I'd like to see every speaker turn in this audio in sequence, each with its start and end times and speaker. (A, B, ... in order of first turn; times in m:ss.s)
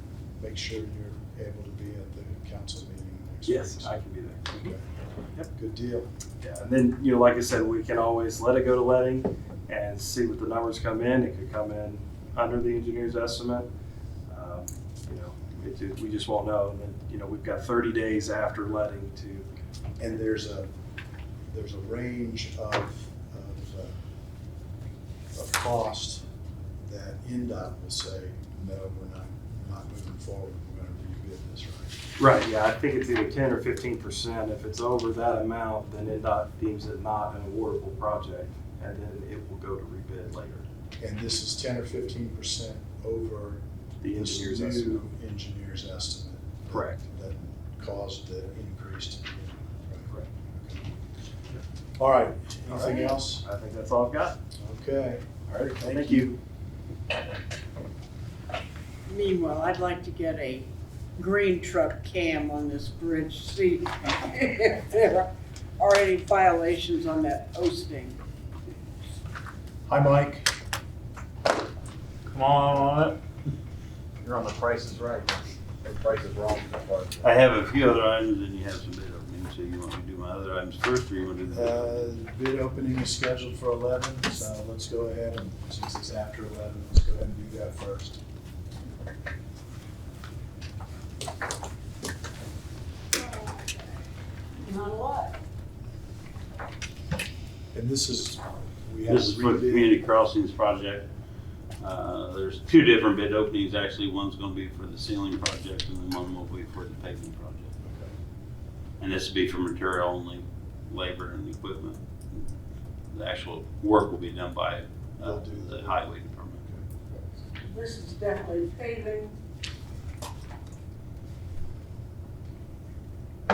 0:00.4-0:04.8 A
0:03.5-0:04.7 B
0:05.5-0:06.1 A
0:06.4-0:13.7 B
0:14.3-0:19.5 B
0:20.0-0:20.7 A
0:21.5-0:23.9 A
0:25.3-0:26.2 A
0:26.8-0:32.0 A
0:32.2-0:40.7 B
0:41.0-0:50.9 A
0:44.0-0:45.0 B
0:46.7-0:47.0 B
0:52.0-0:53.4 A
0:52.7-0:54.4 B
0:54.6-0:56.3 A
0:55.5-0:56.4 B
0:59.1-1:08.2 C
1:09.9-1:10.5 A
1:12.3-1:13.2 D
1:14.2-1:17.3 D
1:17.2-1:22.0 E
1:21.5-1:28.2 A
1:33.1-1:34.0 C
1:34.6-1:35.4 C
1:37.7-1:39.9 A
1:39.1-1:41.1 E
1:41.8-1:47.7 E
1:47.8-1:48.1 A
1:49.0-1:52.5 E
1:53.1-1:56.6 E
1:55.2-1:56.0 A
1:57.1-1:59.4 C